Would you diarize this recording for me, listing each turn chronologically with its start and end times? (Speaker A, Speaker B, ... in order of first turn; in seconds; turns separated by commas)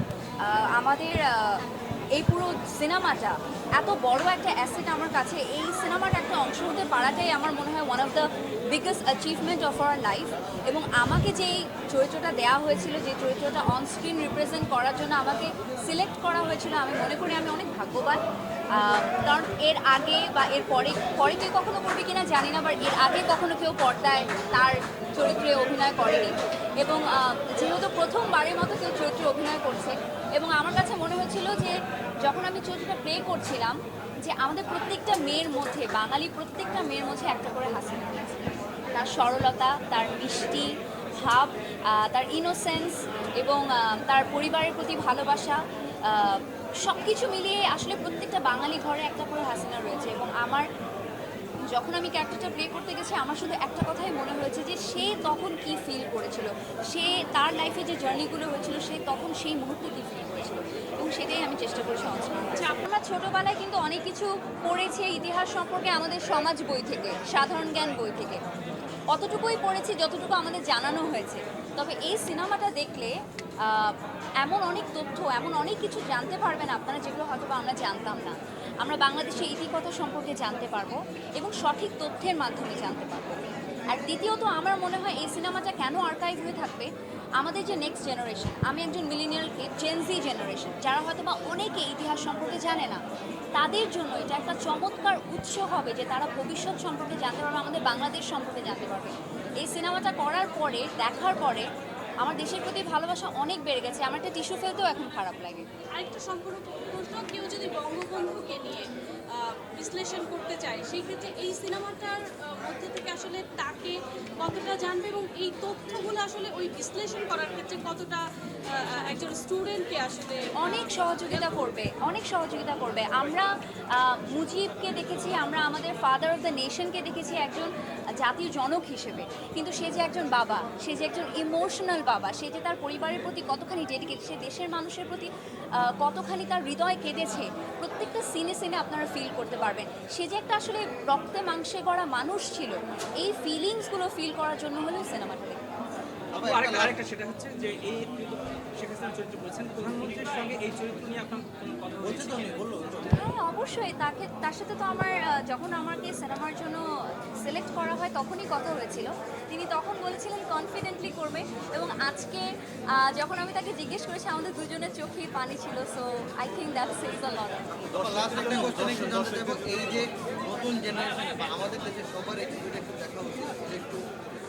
Speaker A: 0.4-1.6, Speaker A: 2.1-18.2, Speaker A: 18.7-50.7, Speaker A: 51.7-68.4, Speaker B: 62.6-62.9, Speaker A: 69.1-93.0, Speaker A: 93.5-101.7, Speaker A: 102.2-105.7, Speaker B: 106.0-121.7, Speaker A: 120.6-145.6, Speaker C: 146.3-153.2, Speaker D: 146.3-147.0, Speaker D: 152.0-153.0, Speaker A: 153.1-156.8, Speaker A: 157.4-167.9, Speaker D: 167.9-174.0, Speaker C: 168.0-170.0